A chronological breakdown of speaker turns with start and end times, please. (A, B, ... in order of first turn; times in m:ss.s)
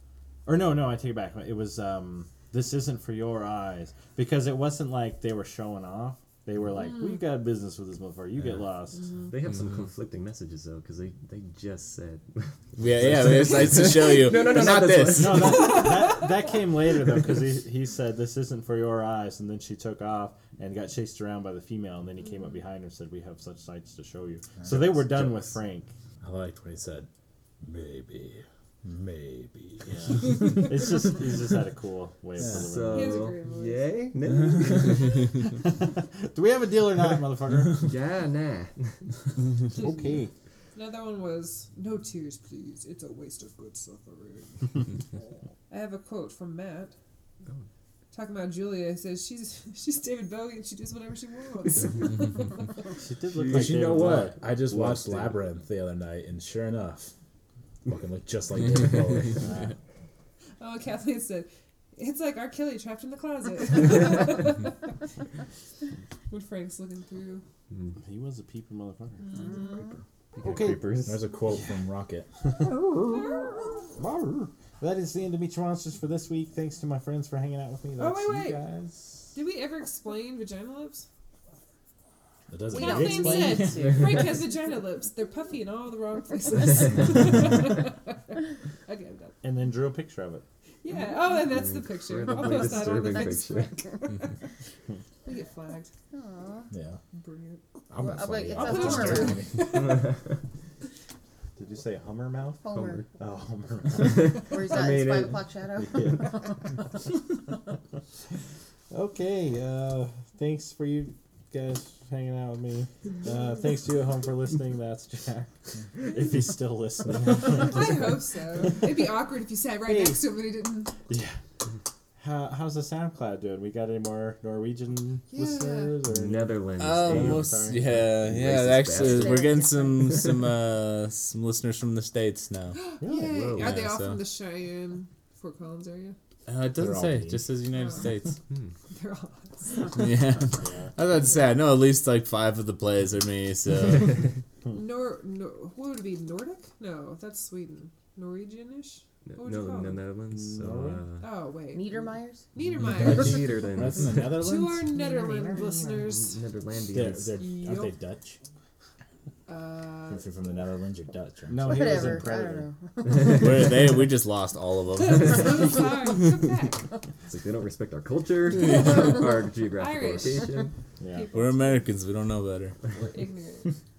0:00.4-0:09.1 A
0:06.8-0:07.2 B
0:09.3-0:15.8 C
0:12.8-0:15.6 D
0:15.2-0:25.9 A
0:15.4-0:16.5 B
0:24.7-0:25.2 C
0:26.2-0:27.1 E
0:27.6-0:30.9 E
0:29.8-0:33.2 A
0:32.4-0:35.3 C
0:32.4-0:32.7 E
0:32.9-0:34.1 B
0:35.4-0:37.9 A
0:37.8-0:39.1 C
0:39.7-0:40.3 A
0:39.7-0:40.2 B
0:40.7-0:44.8 B
0:45.7-0:46.9 B
0:48.1-0:52.6 B
0:53.0-0:54.4 A
0:53.3-0:55.4 C
0:53.5-0:57.1 E
0:57.8-0:59.5 E
0:59.4-0:59.7 A
1:00.6-1:04.8 B
1:06.3-1:07.4 B
1:08.0-1:09.2 A
1:09.2-1:09.8 B
1:09.4-1:09.9 F
1:10.3-1:11.3 C
1:10.4-1:11.0 A
1:11.0-1:12.3 E
1:12.8-1:13.5 F
1:13.0-1:13.8 B
1:14.0-1:19.3 A
1:18.0-1:18.6 B
1:19.3-1:21.1 B
1:22.5-1:24.0 E
1:22.7-1:24.3 F
1:22.7-1:29.4 B
1:29.4-1:30.4 A
1:30.8-1:34.3 B
1:31.4-1:33.8 C
1:35.2-1:35.9 B
1:36.1-1:36.7 F
1:36.7-1:37.0 E
1:37.1-1:40.1 B
1:37.9-1:40.0 E
1:38.0-1:39.4 F
1:41.6-1:45.4 A
1:42.6-1:43.0 F
1:44.0-1:45.0 C
1:44.4-1:46.6 F
1:45.9-1:46.2 A
1:48.9-1:58.8 A
1:57.4-2:01.0 B
1:59.8-2:00.2 A
2:01.1-2:01.4 A
2:02.2-2:08.0 A
2:05.3-2:06.0 B
2:06.0-2:10.2 C
2:06.8-2:12.8 D
2:09.0-2:10.2 F
2:12.7-2:16.2 B
2:13.0-2:13.5 E
2:13.0-2:13.6 A
2:13.6-2:14.2 D
2:16.5-2:18.4 D
2:16.7-2:17.7 E
2:17.7-2:18.1 B
2:18.9-2:20.0 B
2:19.9-2:24.3 D
2:20.6-2:20.9 A
2:24.7-2:30.1 B
2:29.2-2:31.2 C
2:30.4-2:31.0 E
2:31.2-2:36.4 B
2:31.7-2:32.4 F
2:32.6-2:34.3 C
2:32.9-2:34.8 E
2:34.9-2:36.1 F
2:36.0-2:37.4 C
2:36.9-2:38.4 E
2:37.3-2:37.9 B
2:39.5-2:40.2 B
2:40.1-2:42.2 E
2:41.5-2:42.7 A
2:41.6-2:43.5 F
2:43.2-2:45.7 D
2:45.0-2:46.9 B
2:47.3-2:50.7 C
2:48.6-2:51.9 B
2:51.0-2:51.3 A
2:51.3-2:52.8 D
2:52.9-2:53.7 B